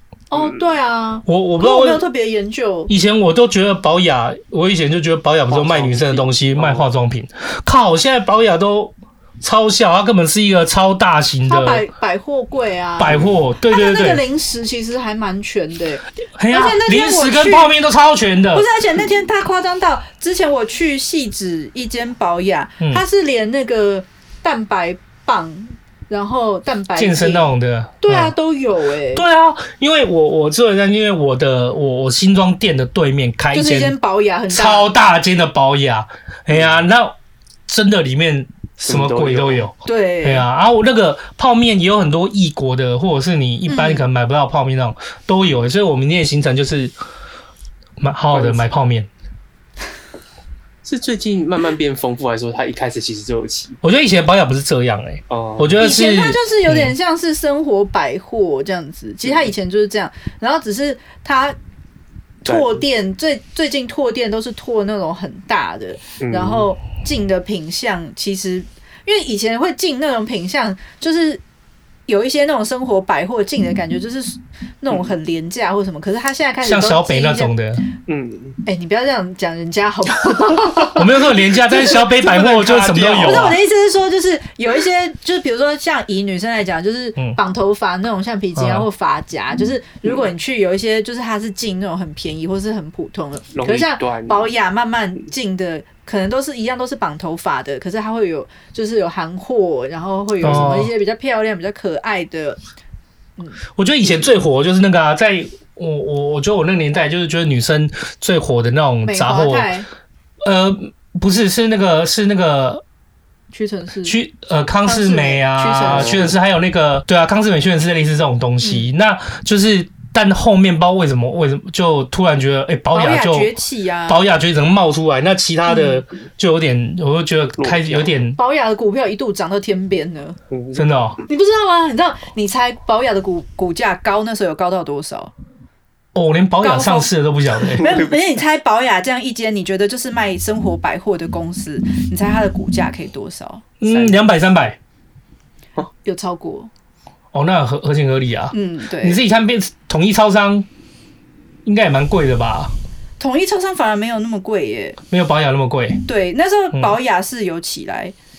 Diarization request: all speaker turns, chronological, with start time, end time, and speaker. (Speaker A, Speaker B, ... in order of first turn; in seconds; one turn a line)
Speaker A: 0.3-2.9
Speaker B: 0.3-0.6
Speaker C: 1.3-2.0
Speaker C: 2.9-11.9
Speaker B: 5.5-6.9
Speaker A: 11.5-17.7
Speaker C: 13.0-14.2
Speaker C: 16.4-18.7
Speaker A: 18.5-27.5
Speaker C: 26.9-28.4
Speaker A: 28.0-29.2
Speaker C: 29.1-34.0
Speaker A: 33.5-34.9
Speaker C: 34.5-37.1
Speaker C: 37.7-46.9
Speaker B: 38.9-39.7
Speaker A: 39.8-40.5
Speaker A: 43.7-44.1
Speaker C: 48.0-49.1
Speaker B: 48.3-48.7
Speaker B: 50.9-53.8
Speaker C: 53.8-57.0
Speaker B: 55.3-55.8
Speaker A: 55.8-61.6
Speaker A: 62.4-71.4
Speaker B: 62.5-62.8
Speaker B: 66.2-66.7
Speaker A: 72.1-77.5
Speaker C: 76.6-77.8
Speaker B: 78.1-78.6
Speaker A: 78.7-82.0
Speaker C: 80.9-83.6
Speaker B: 82.1-83.5
Speaker A: 83.1-102.6
Speaker C: 88.6-88.9
Speaker B: 93.5-94.5
Speaker C: 100.4-100.9
Speaker C: 103.8-109.7
Speaker A: 109.0-109.9
Speaker C: 110.4-112.8
Speaker A: 113.5-114.2
Speaker C: 114.0-123.5
Speaker A: 114.8-116.3
Speaker B: 116.0-116.3
Speaker A: 118.6-118.9
Speaker A: 122.9-124.2
Speaker C: 124.1-128.4
Speaker A: 125.7-126.0
Speaker B: 127.6-128.1
Speaker A: 128.4-130.4
Speaker B: 130.5-130.8
Speaker C: 130.8-131.2
Speaker A: 131.3-135.3
Speaker C: 136.2-138.0
Speaker A: 136.6-137.1
Speaker A: 137.8-144.2
Speaker B: 137.8-138.0
Speaker C: 143.8-144.8
Speaker A: 146.0-146.7
Speaker C: 147.3-150.7
Speaker A: 148.5-149.2
Speaker C: 151.7-152.7
Speaker A: 153.2-155.0
Speaker C: 155.1-156.0
Speaker A: 156.1-158.2